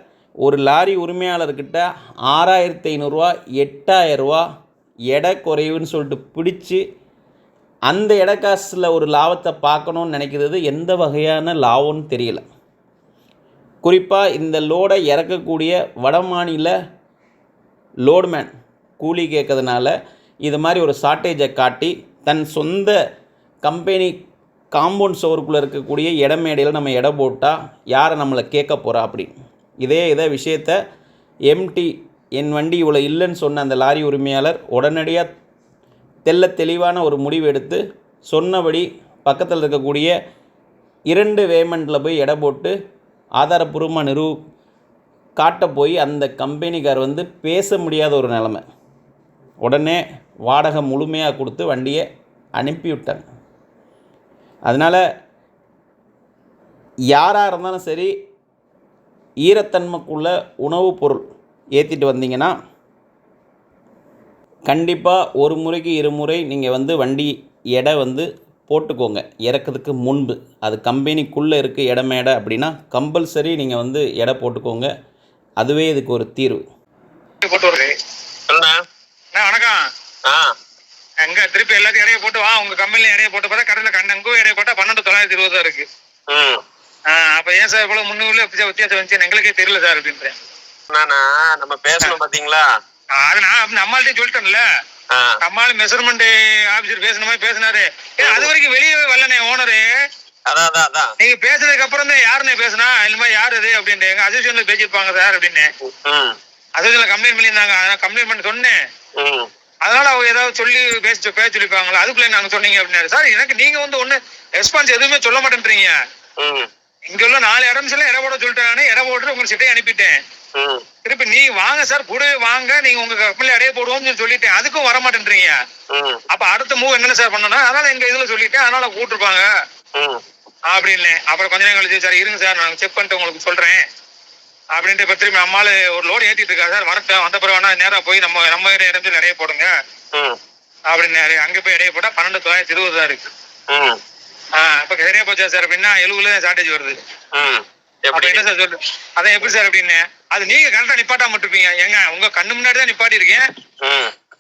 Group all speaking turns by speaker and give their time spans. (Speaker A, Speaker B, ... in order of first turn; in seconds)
Speaker A: 0.4-4.4, 5.1-6.8, 7.9-12.4, 13.8-16.7, 18.1-19.9, 20.4-23.0, 23.6-24.2, 24.7-29.3, 29.8-30.8, 31.5-35.3, 36.3-40.1, 41.1-42.7, 43.4-44.4, 45.4-48.6, 49.6-52.0, 52.6-53.3, 54.7-55.0, 57.1-58.1, 59.5-61.2, 61.8-62.5, 64.7-74.9, 75.6-76.6
Speaker B: 77.4-78.0, 79.3-79.8, 81.2-85.9, 87.1-90.3, 93.2-94.6, 95.4-99.8, 101.2-105.7, 106.8-108.7, 109.8-115.9, 117.1-120.1, 121.0-125.5, 126.3-129.4, 130.7-133.8, 134.7-139.7, 140.9-143.2, 144.6-147.0, 148.1-153.4
Speaker C: 86.3-86.6, 90.9-92.6, 95.1-95.4, 98.2-98.5, 100.5-101.1, 105.9-106.4, 109.2-109.5, 116.4-116.7, 120.6-120.8, 125.9-126.2, 143.7-144.0, 147.3-148.4, 153.8-154.1